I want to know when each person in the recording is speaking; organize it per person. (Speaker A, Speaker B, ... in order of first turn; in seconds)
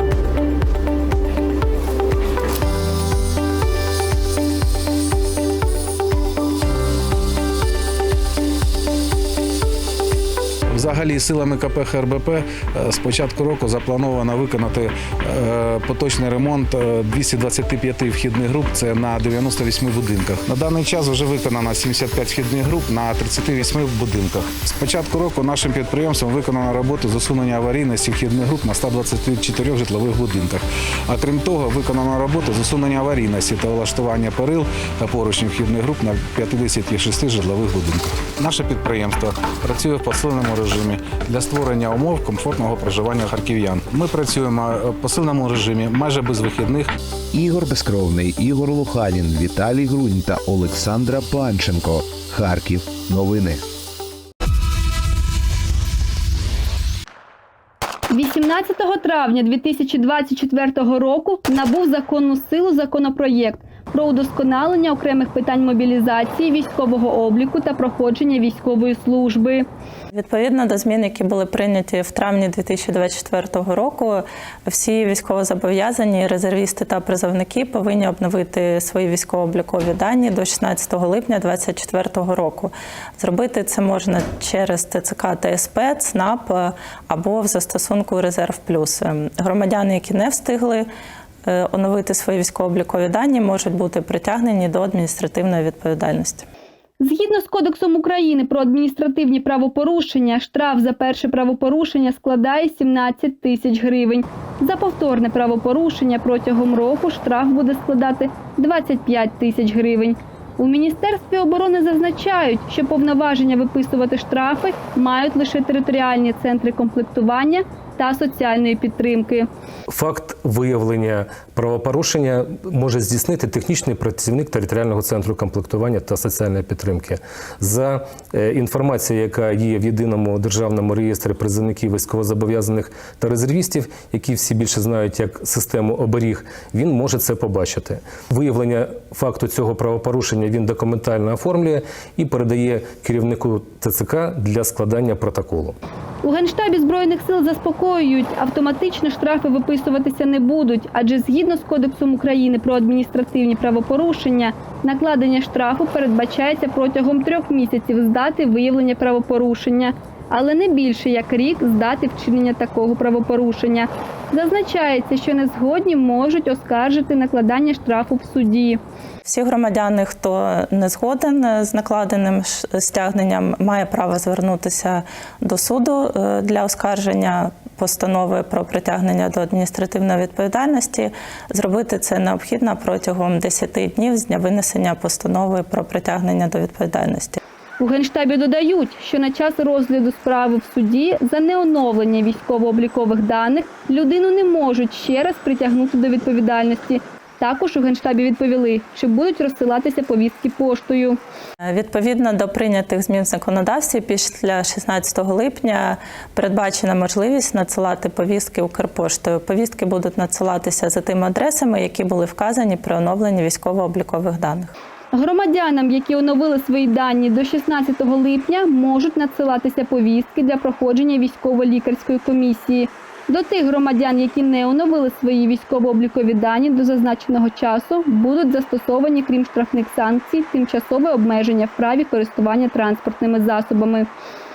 Speaker A: 10.7-46.9
Speaker B: 47.3-53.6
Speaker C: 58.1-69.7, 97.0-119.5, 146.2-168.8, 187.8-201.2, 215.1-234.1
Speaker D: 70.2-90.9, 91.5-96.5, 169.3-187.4, 201.7-214.7
Speaker E: 120.0-127.1, 128.7-132.8, 133.5-136.4, 137.2-137.9, 138.5-141.8, 142.3-145.7